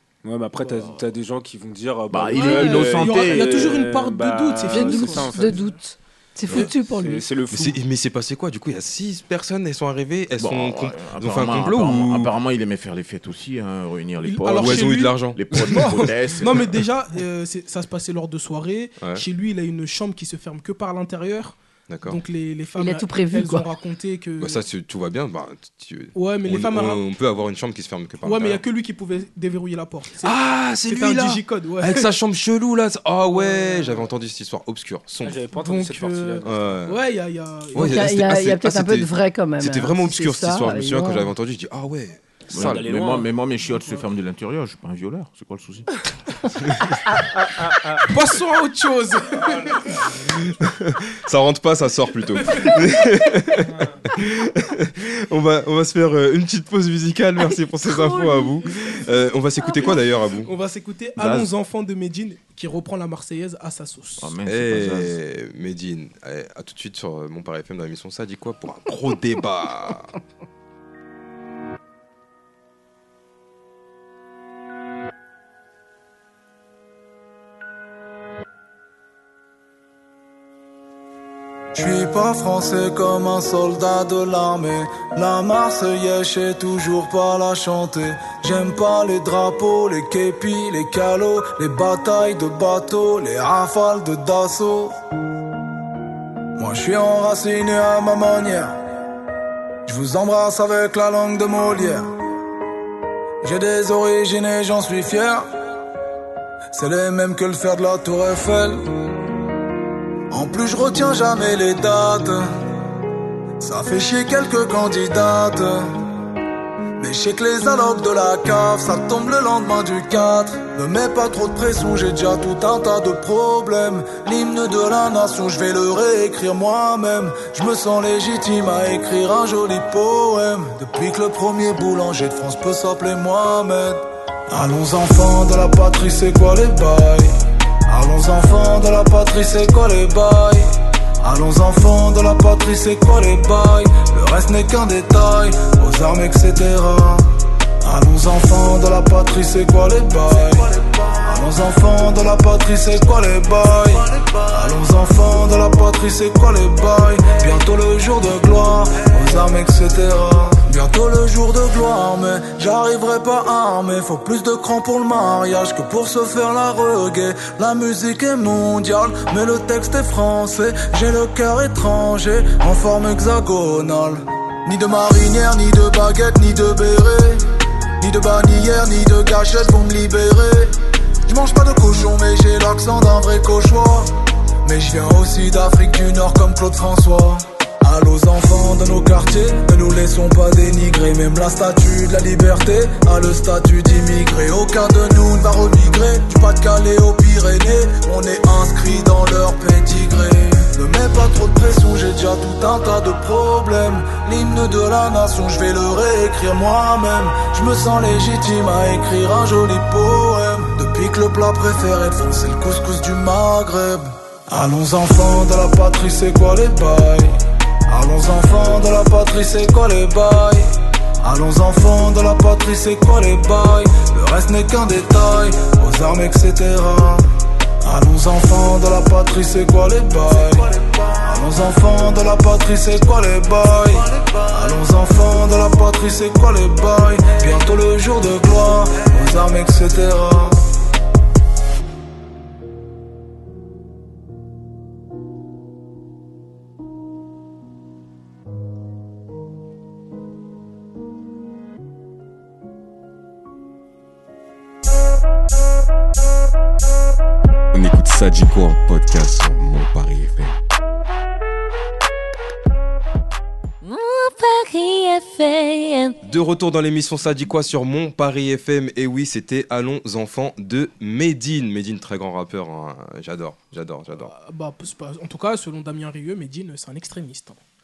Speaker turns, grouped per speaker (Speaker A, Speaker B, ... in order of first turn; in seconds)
Speaker A: 0.2-5.7, 6.6-7.8, 35.2-36.5, 42.5-43.3, 47.4-48.0
Speaker B: 2.1-3.7, 10.4-16.8, 42.5-45.9, 61.2-61.5, 64.2-65.2
Speaker C: 2.3-5.7, 14.2-24.6, 26.1-27.0, 28.2-32.1, 33.4-33.7, 35.6-38.1, 48.1-50.0, 52.5-52.8, 59.7-64.4, 274.2-277.6
Speaker D: 4.7-7.2, 22.8-23.6, 37.7-41.3
Speaker E: 7.5-12.3, 14.6-16.1, 21.9-22.2, 24.4-28.6, 30.2-35.4, 36.4-37.0, 37.7-42.9, 46.6-46.9, 50.5-60.5, 64.5-70.1, 266.2-274.3
Speaker F: 81.7-95.0, 96.5-98.8, 99.8-102.1, 103.4-105.5, 106.7-108.9, 110.3-112.5, 113.6-115.9, 117.0-137.3, 137.9-147.3, 147.8-177.4, 178.0-180.7, 181.2-184.1, 184.6-217.3, 217.9-227.2, 227.8-240.7
Speaker G: 257.7-260.6
Speaker H: 263.8-266.2